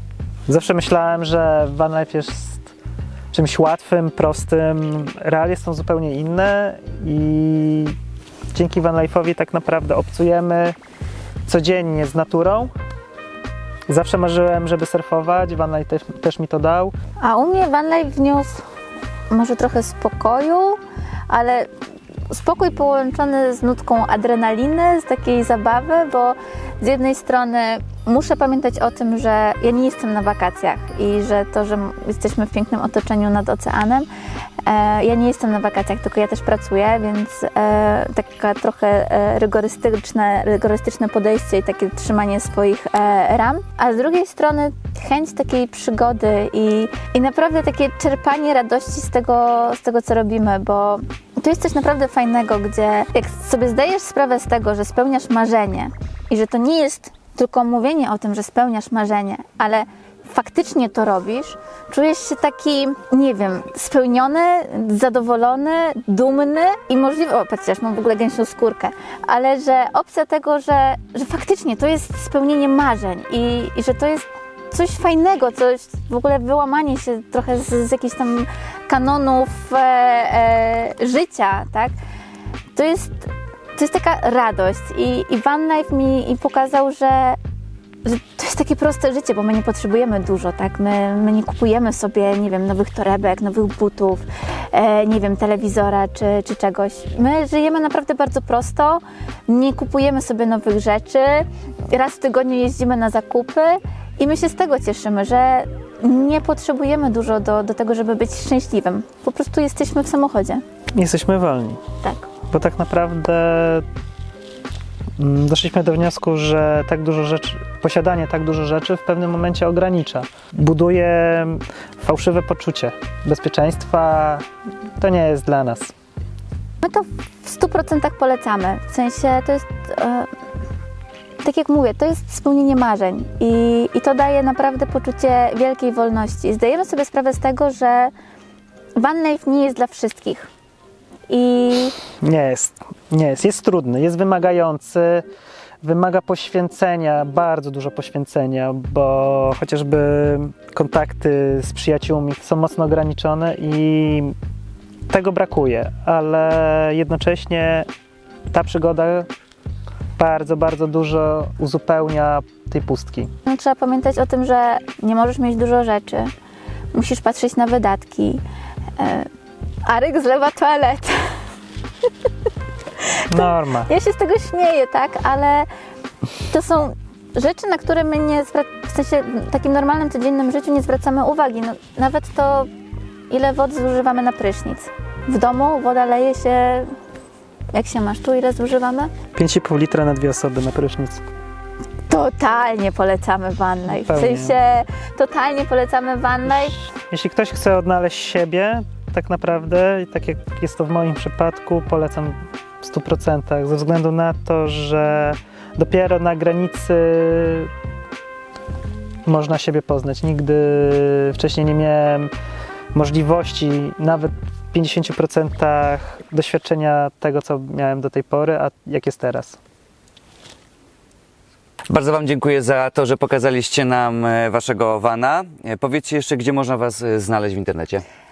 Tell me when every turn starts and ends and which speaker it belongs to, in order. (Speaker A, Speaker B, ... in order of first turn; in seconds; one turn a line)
Speaker A: 0.5-2.7
Speaker A: 3.3-8.0
Speaker A: 8.5-10.8
Speaker A: 11.5-12.7
Speaker A: 13.9-16.9
Speaker B: 17.2-18.6
Speaker B: 19.3-21.7
Speaker B: 22.3-34.1
Speaker B: 34.6-81.9
Speaker B: 82.8-87.4
Speaker B: 88.0-110.6
Speaker A: 111.0-111.8
Speaker B: 112.0-112.3
Speaker A: 112.5-113.9
Speaker A: 115.2-125.9
Speaker B: 126.8-130.3
Speaker B: 131.4-138.1
Speaker B: 139.0-140.5
Speaker B: 141.3-142.0
Speaker A: 142.2-145.3
Speaker A: 145.8-154.3
Speaker A: 155.1-157.9
Speaker A: 158.5-159.3
Speaker A: 160.2-163.3
Speaker B: 163.5-166.3
Speaker B: 166.9-168.4
Speaker B: 169.0-169.3
Speaker B: 169.8-171.3
Speaker B: 173.0-175.7
Speaker A: 173.3-173.9
Speaker B: 176.5-182.7
Speaker B: 183.3-186.9
Speaker B: 187.7-189.1
Speaker A: 189.3-191.2
Speaker B: 192.1-196.8
Speaker A: 194.0-194.6
Speaker A: 196.6-207.7
Speaker A: 209.3-212.3
Speaker A: 212.9-219.6
Speaker C: 221.9-228.0